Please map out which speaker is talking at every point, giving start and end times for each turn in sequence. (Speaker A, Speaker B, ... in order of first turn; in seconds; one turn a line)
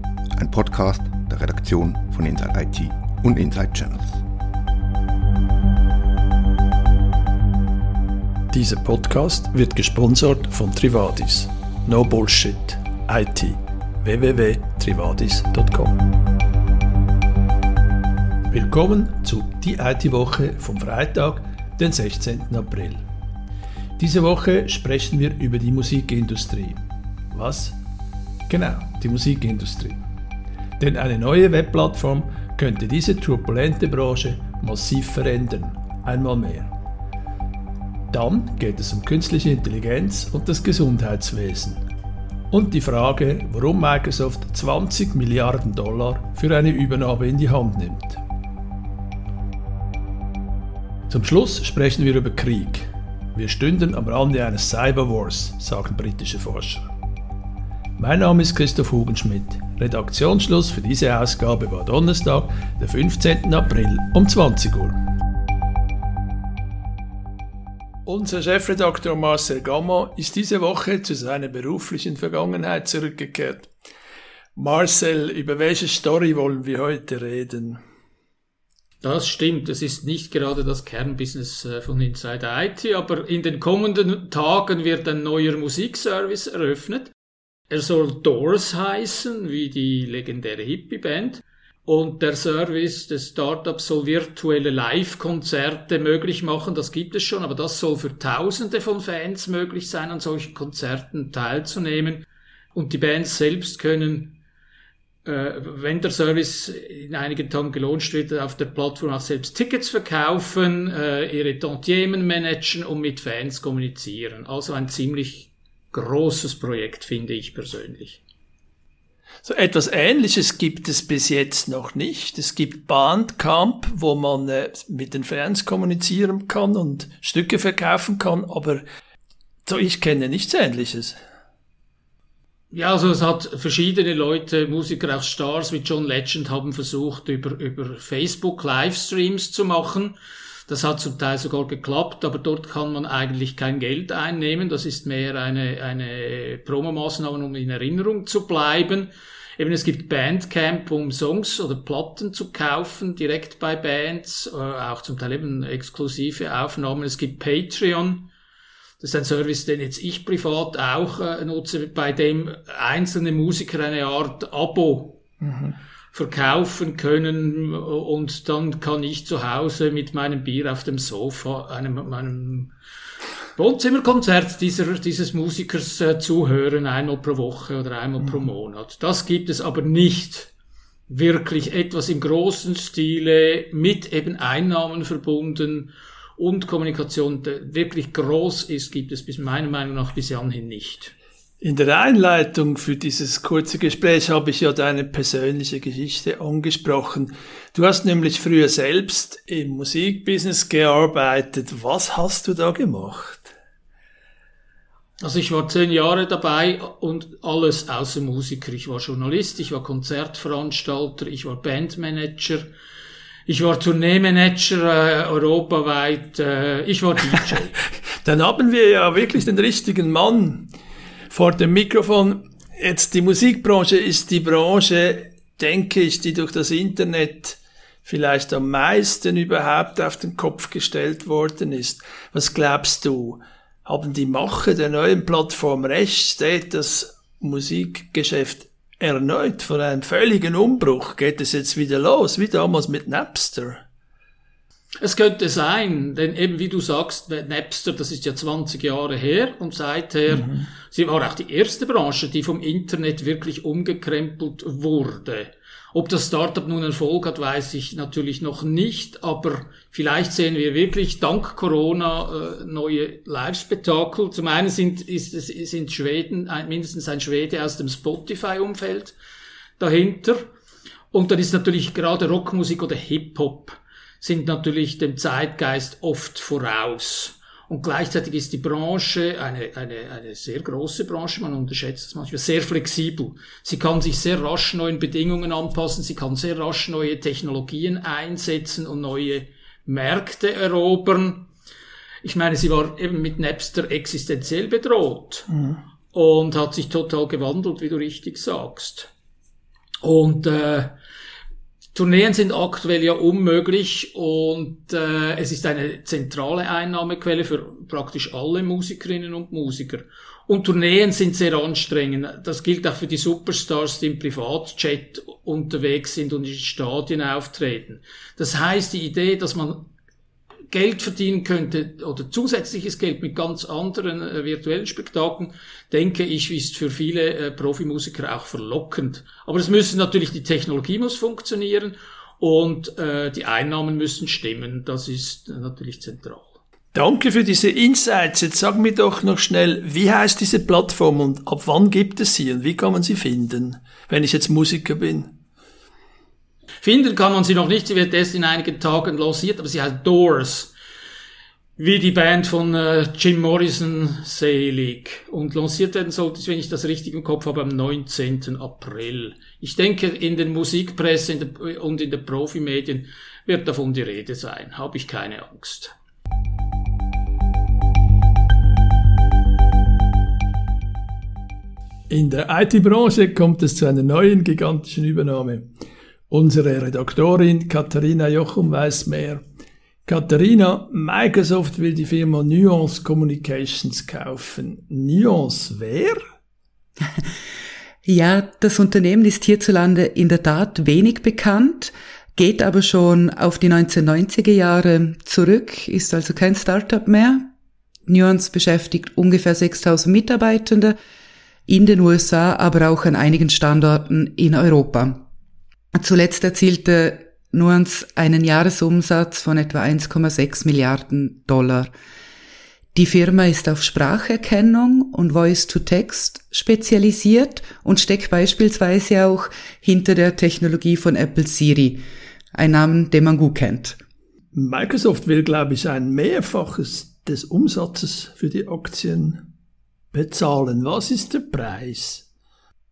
Speaker A: 0.4-4.2
Speaker B: 8.5-16.0
Speaker B: 18.5-23.0
Speaker B: 24.0-26.8
Speaker B: 27.3-27.8
Speaker B: 28.5-30.0
Speaker B: 30.8-36.7
Speaker B: 38.1-41.9
Speaker B: 42.5-48.2
Speaker B: 51.1-56.9
Speaker B: 58.0-65.0
Speaker B: 68.1-73.7
Speaker B: 74.6-77.8
Speaker C: 79.0-87.1
Speaker C: 87.7-104.4
Speaker C: 105.2-118.2
Speaker B: 119.4-128.8
Speaker B: 129.7-131.2
Speaker C: 132.7-140.2
Speaker C: 140.7-158.3
Speaker C: 159.0-165.2
Speaker B: 165.4-165.7
Speaker C: 166.1-172.7
Speaker C: 173.6-180.5
Speaker C: 181.1-191.1
Speaker B: 191.6-203.5
Speaker C: 205.2-212.7
Speaker C: 213.5-217.8
Speaker B: 218.2-220.7
Speaker B: 221.3-243.8
Speaker C: 245.0-269.2
Speaker B: 250.3-250.6
Speaker C: 269.8-270.5
Speaker C: 271.1-291.5
Speaker C: 292.2-295.5
Speaker B: 295.5-295.8
Speaker C: 296.1-299.1
Speaker C: 300.0-301.0
Speaker C: 301.9-319.9
Speaker C: 320.7-336.6
Speaker B: 336.9-345.4
Speaker C: 346.8-350.7
Speaker C: 351.8-365.9
Speaker B: 372.1-375.7
Speaker B: 376.3-379.4
Speaker B: 380.1-386.2
Speaker D: 388.1-397.5
Speaker D: 398.1-400.9
Speaker D: 401.7-405.2
Speaker D: 406.0-411.9
Speaker D: 412.9-422.0
Speaker D: 422.6-424.0
Speaker B: 424.5-429.5
Speaker B: 430.1-432.2